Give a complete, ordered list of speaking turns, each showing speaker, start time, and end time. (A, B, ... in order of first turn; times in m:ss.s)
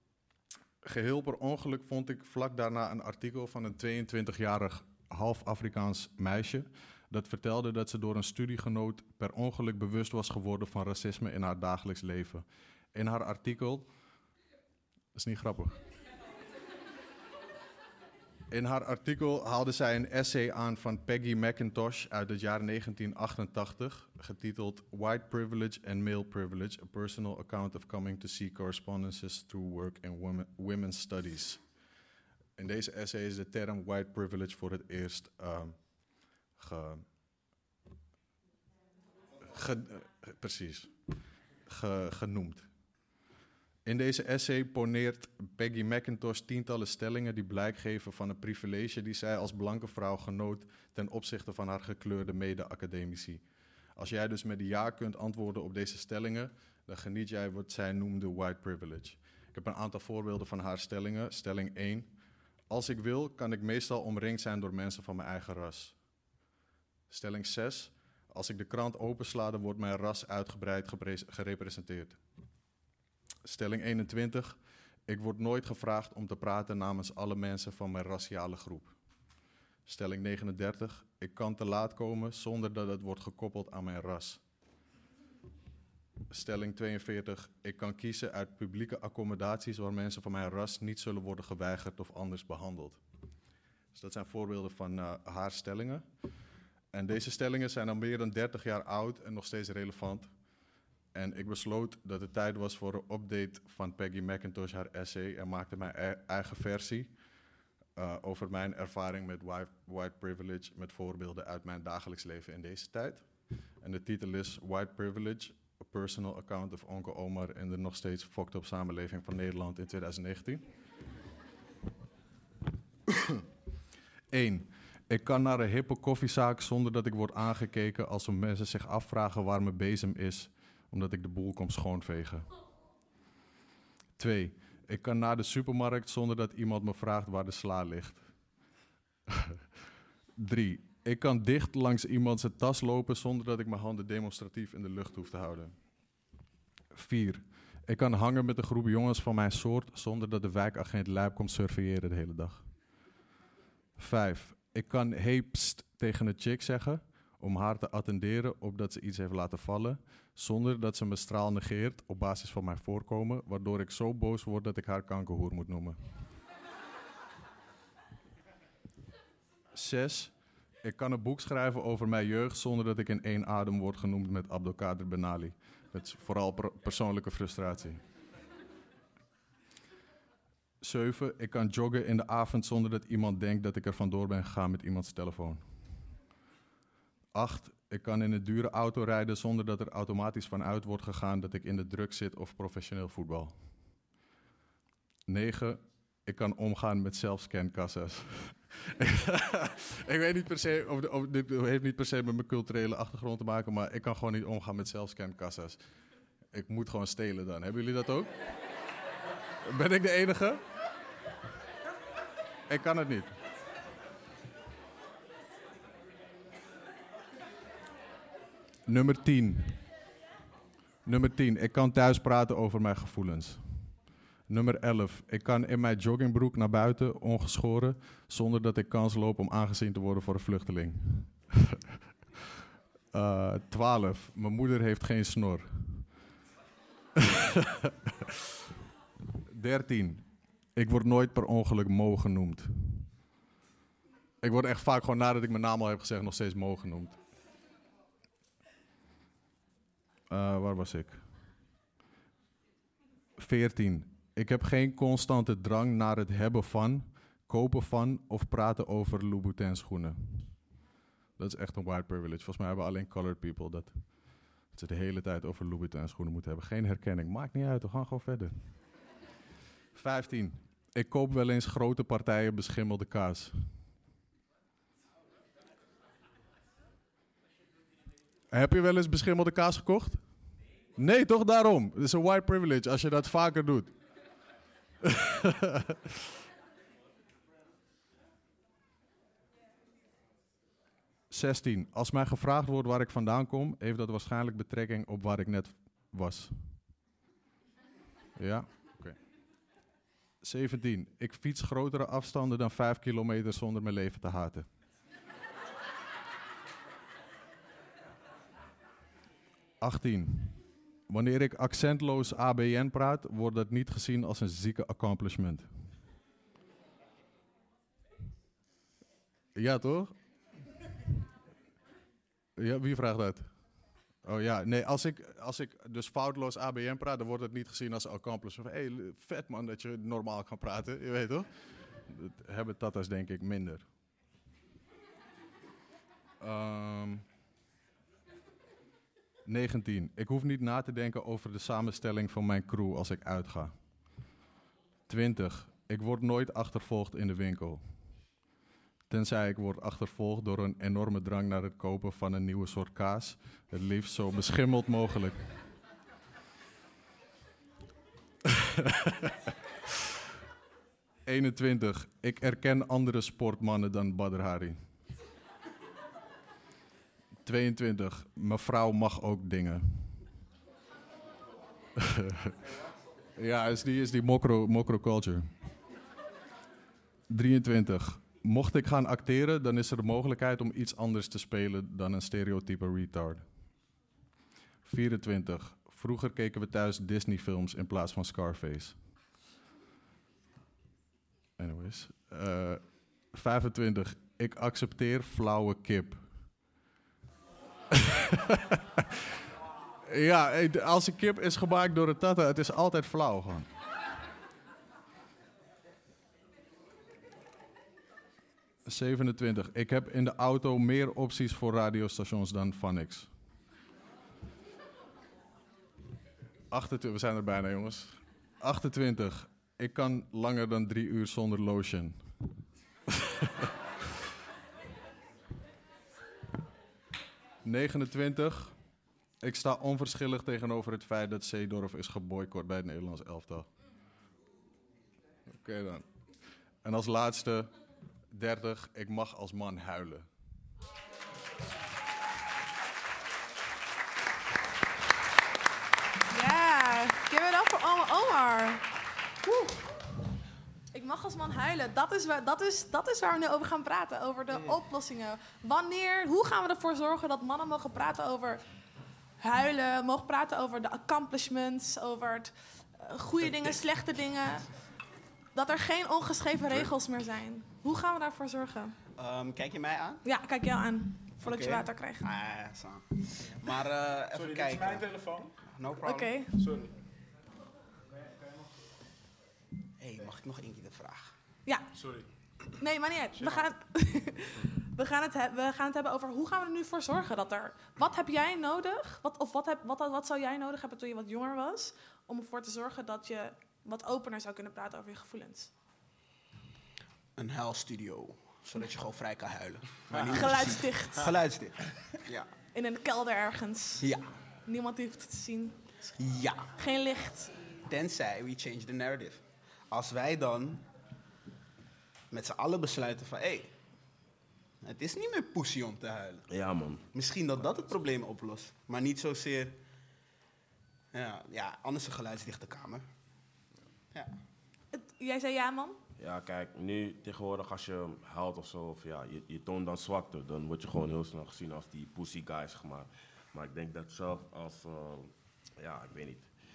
0:00.8-0:13.9 A
0:15.1-0:15.8 A
0:18.5-0:31.6 A
0:32.6-0:37.0 A
0:39.5-0:40.9 A
0:41.6-0:42.7 A
0:43.8-0:53.4 A
0:54.0-1:02.1 A
1:02.7-1:06.0 A
1:07.1-1:12.2 A
1:13.4-1:14.6 A
1:15.1-1:18.9 A
1:19.8-1:24.4 A
1:26.3-1:33.0 A
1:33.9-1:36.0 A
1:36.9-1:40.3 A
1:41.1-1:47.1 A
1:48.0-1:53.3 A
1:53.8-2:00.6 A
2:03.1-2:03.4 A
2:04.3-2:12.5 A
2:14.2-2:18.2 A
2:19.3-2:19.6 A
2:20.4-2:25.7 A
2:26.9-2:32.7 A
2:34.0-2:46.0 A
2:49.7-2:58.0 A
3:00.8-3:05.6 A
3:07.3-3:13.6 A
3:15.2-3:25.8 A
3:26.5-3:28.3 A
3:29.6-3:30.6 A
3:32.7-3:33.3 A
3:38.8-3:39.8 A
3:41.0-3:43.9 A
3:44.5-3:51.8 A
3:53.1-3:56.1 A
3:57.2-3:57.7 A
3:59.5-4:03.1 A
4:04.4-4:07.2 A
4:10.3-4:11.2 A
4:13.4-4:20.6 A
4:21.4-4:28.7 A
4:29.9-4:33.5 A
4:38.5-4:40.2 A
4:41.0-4:43.9 A
4:45.0-4:45.9 A
4:51.3-4:56.8 A
4:58.4-4:59.2 A
5:00.4-5:04.7 A
5:09.8-5:15.7 A
5:19.6-5:20.1 A
5:22.6-5:23.5 A
5:24.2-5:33.8 A
5:36.4-5:37.2 A
5:39.4-5:43.7 A
5:45.1-5:47.8 A
5:49.1-5:55.5 A
5:58.8-5:59.3 A
6:01.2-6:04.8 A
6:07.4-6:10.2 A
6:12.0-6:12.5 A
6:13.4-6:15.5 A
6:17.3-6:23.4 A
6:24.8-6:29.0 A
6:31.6-6:36.5 A
6:37.9-6:38.8 A
6:40.1-6:43.7 A
6:48.8-6:53.3 A
6:56.7-7:02.3 A
7:07.6-7:08.7 A
7:09.4-7:13.7 A
7:15.5-7:16.1 A
7:16.8-7:17.7 A
7:18.3-7:20.2 A
7:26.3-7:28.8 B
7:29.4-7:29.8 B
7:30.9-7:38.6 B
7:39.4-7:44.7 B
7:45.5-7:49.0 B
7:49.2-7:50.2 C
7:50.2-7:52.2 B
7:51.4-7:55.1 C
7:54.3-7:55.6 D
7:55.6-7:56.4 C
7:56.0-7:56.6 B
7:56.6-7:56.9 D
7:58.1-7:58.8 D
8:00.0-8:01.3 C
8:01.9-8:02.3 D
8:02.8-8:15.7 B
8:03.4-8:03.7 D
8:17.4-8:22.5 C
8:20.3-8:21.3 B
8:22.7-8:24.1 B
8:24.0-8:24.3 C
8:24.6-8:25.8 B
8:26.2-8:26.7 C
8:26.8-8:27.5 B
8:27.8-8:30.9 C
8:32.3-8:33.7 C
8:34.8-8:36.5 C
8:36.5-8:37.0 E
8:37.1-8:39.8 C
8:41.1-8:43.0 C
8:44.9-8:46.0 B
8:46.2-8:56.5 E